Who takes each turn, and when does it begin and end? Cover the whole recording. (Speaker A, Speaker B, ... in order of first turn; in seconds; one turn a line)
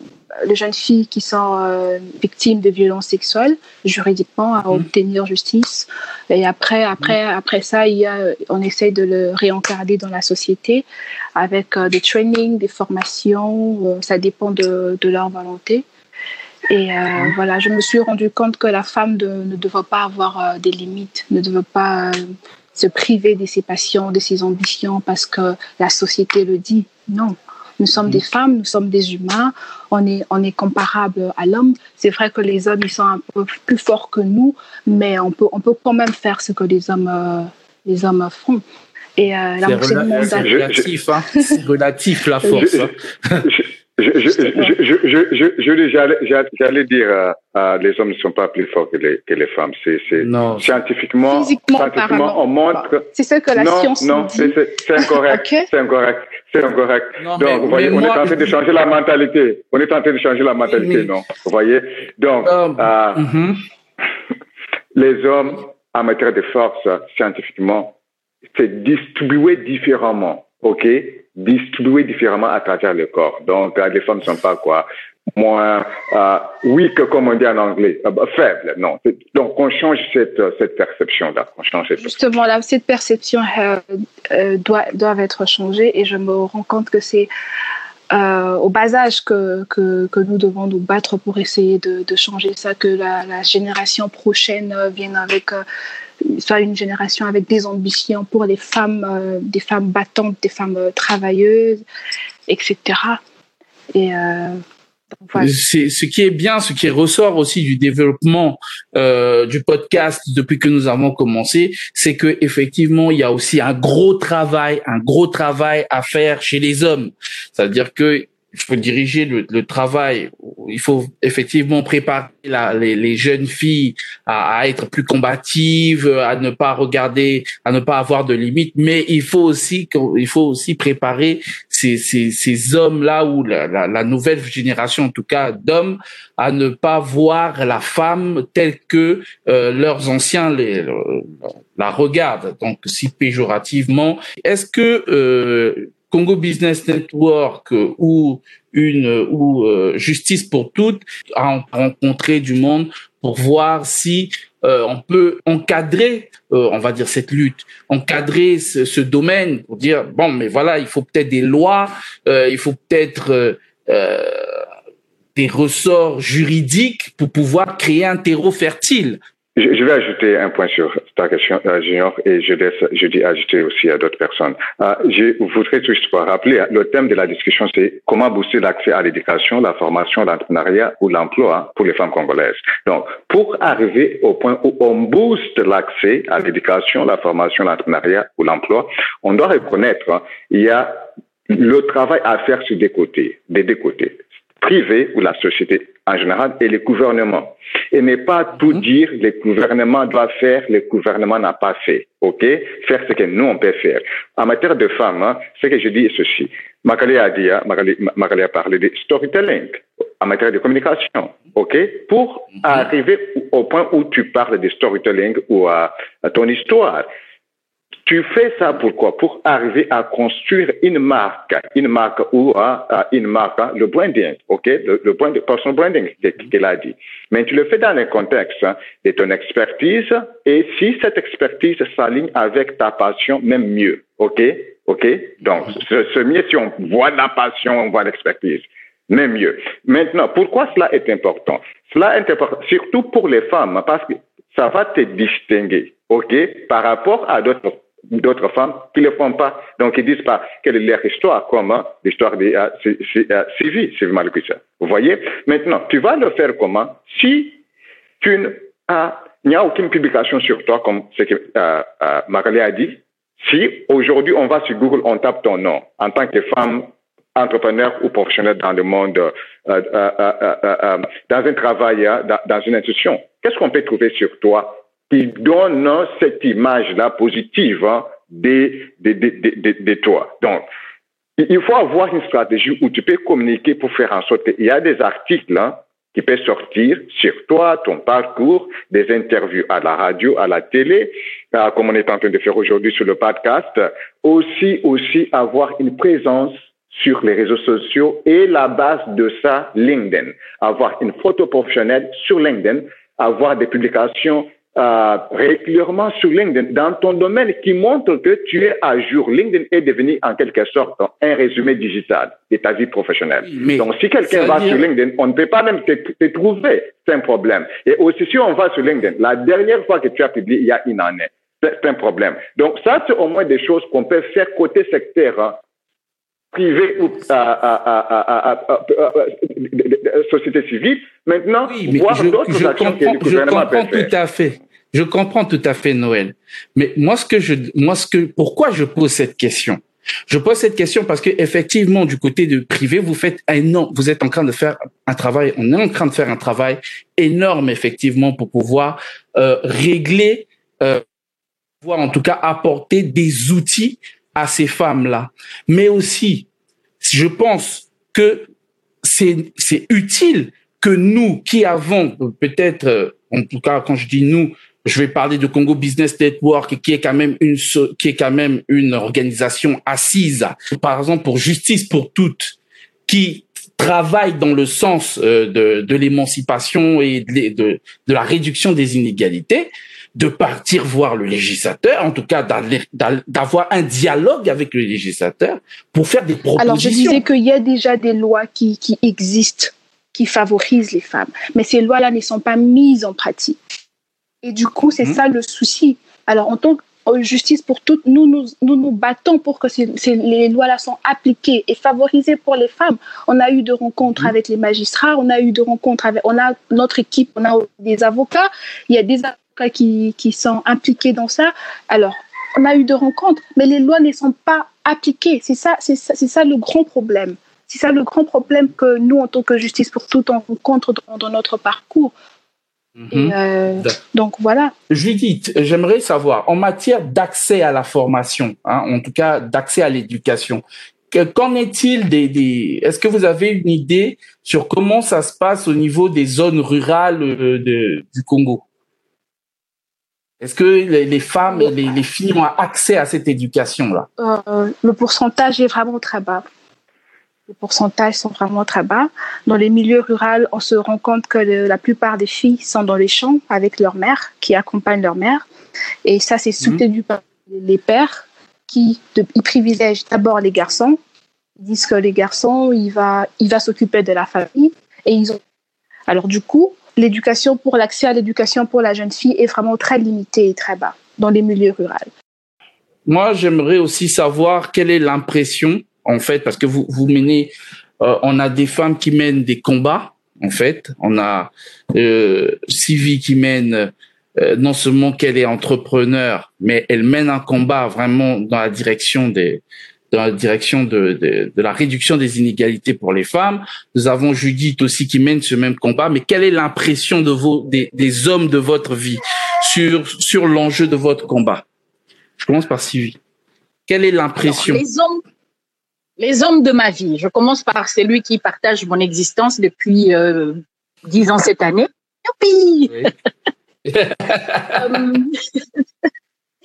Speaker A: 0.4-15.8
Speaker A: 16.7-22.2
Speaker A: 22.8-38.6
Speaker A: 39.2-40.6
Speaker B: 39.6-43.5
Speaker C: 40.4-40.9
Speaker A: 41.3-41.6
Speaker C: 42.5-42.9
Speaker C: 43.4-63.3
Speaker A: 44.5-44.8
Speaker B: 50.2-50.7
Speaker A: 51.3-55.7
Speaker B: 57.2-58.5
Speaker B: 60.6-61.1
Speaker B: 62.4-63.6
Speaker C: 64.9-67.9
Speaker C: 68.5-82.1
Speaker A: 82.0-87.3
Speaker A: 88.1-95.6
Speaker A: 96.3-101.8
Speaker A: 102.5-103.2
Speaker A: 103.9-104.6
Speaker A: 105.2-105.5
Speaker B: 105.3-164.6
Speaker B: 165.3-169.2
Speaker C: 169.6-217.1
Speaker C: 218.1-257.6
Speaker C: 258.2-280.6
Speaker C: 281.4-325.6
Speaker B: 313.4-314.9
Speaker C: 326.5-334.1
Speaker B: 331.7-351.0
Speaker B: 351.8-356.5
Speaker B: 357.0-358.5
Speaker B: 359.0-372.6
Speaker B: 373.1-387.2
Speaker A: 386.6-393.6
Speaker A: 394.4-422.1
Speaker B: 422.9-424.0
Speaker A: 423.1-424.7
Speaker B: 424.9-438.6
Speaker B: 440.4-444.1
Speaker A: 444.2-446.4
Speaker A: 447.5-455.4
Speaker A: 456.0-461.0
Speaker A: 461.6-465.4
Speaker A: 466.1-472.1
Speaker B: 473.1-501.6
Speaker B: 502.4-503.2
Speaker B: 503.9-504.8
Speaker D: 504.4-505.2
Speaker D: 506.2-513.1
Speaker B: 513.9-514.9
Speaker D: 514.7-515.6